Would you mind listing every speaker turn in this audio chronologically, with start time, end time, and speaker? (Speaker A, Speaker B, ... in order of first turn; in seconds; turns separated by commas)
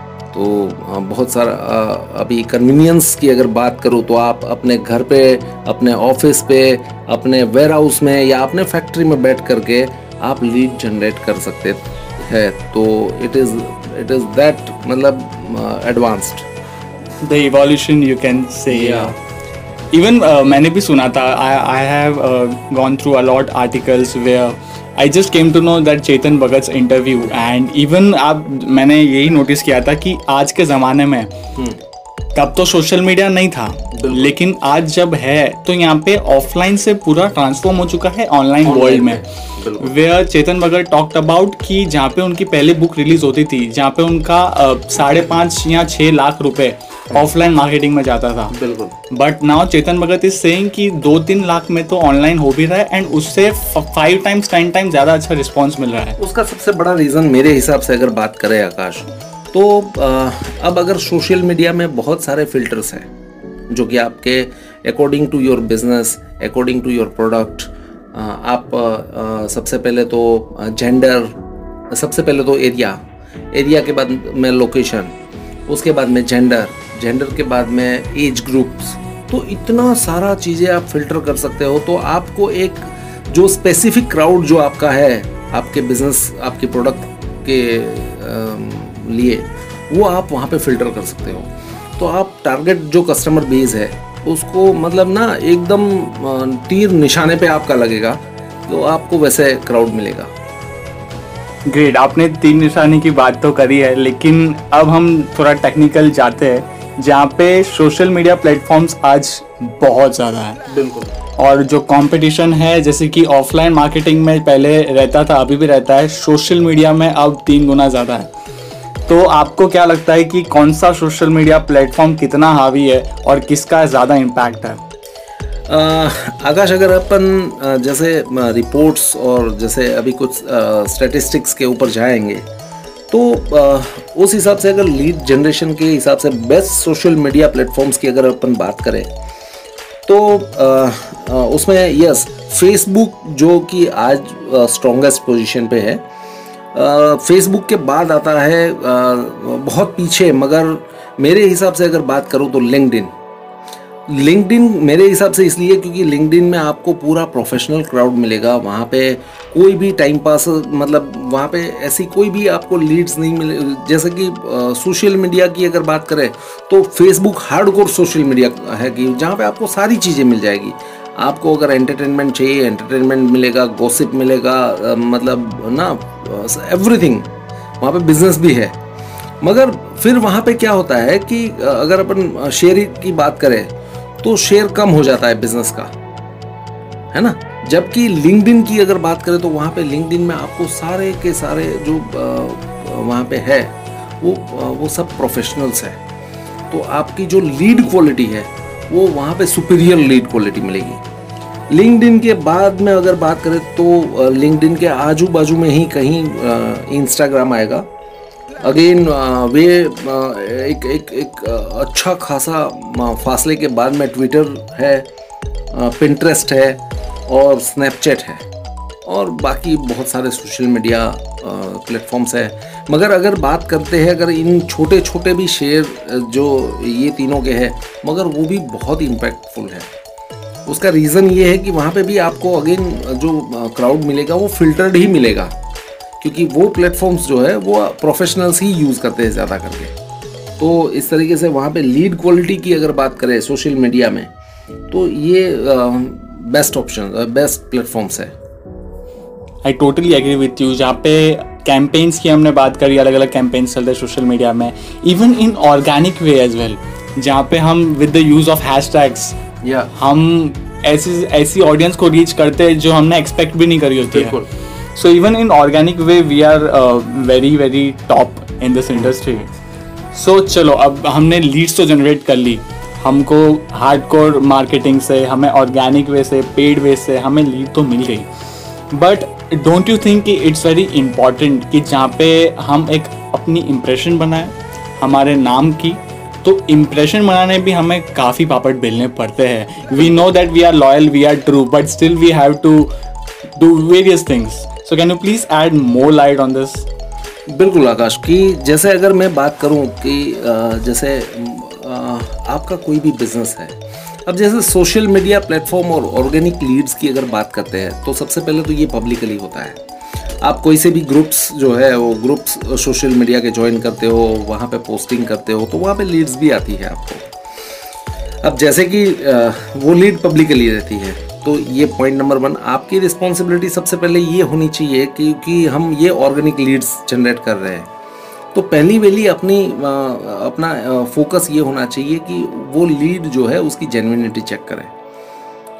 Speaker A: 0.3-16.5, Speaker B: 17.2-19.1, Speaker A: 18.7-19.1, Speaker B: 19.9-31.3, Speaker B: 32.3-39.2, Speaker A: 33.9-34.3, Speaker A: 38.6-40.0, Speaker B: 39.8-48.5, Speaker A: 48.5-48.9, Speaker B: 49.1-56.2, Speaker A: 56.2-63.1, Speaker A: 63.7-71.3, Speaker A: 71.9-73.0, Speaker A: 73.5-75.1, Speaker A: 75.7-100.3, Speaker B: 101.7-110.6, Speaker A: 110.7-111.1, Speaker B: 111.4-118.3, Speaker B: 119.1-124.8, Speaker A: 125.7-132.4, Speaker A: 133.1-139.1, Speaker A: 140.1-146.0, Speaker A: 146.7-153.1, Speaker A: 154.1-178.8, Speaker A: 179.4-185.9, Speaker A: 187.1-196.0, Speaker A: 196.7-201.0, Speaker A: 201.7-207.8, Speaker A: 208.6-215.1, Speaker A: 215.7-218.4, Speaker A: 219.0-229.9, Speaker A: 230.7-235.5, Speaker A: 236.2-239.9, Speaker A: 240.6-244.3, Speaker A: 244.9-248.3, Speaker B: 249.6-259.4, Speaker A: 259.6-259.9, Speaker B: 259.9-264.4, Speaker A: 264.1-264.5, Speaker B: 264.9-269.5, Speaker B: 270.1-278.3, Speaker B: 278.9-292.9, Speaker B: 293.6-296.9, Speaker A: 297.5-309.8, Speaker A: 310.4-317.3, Speaker A: 318.4-327.9, Speaker A: 328.5-334.9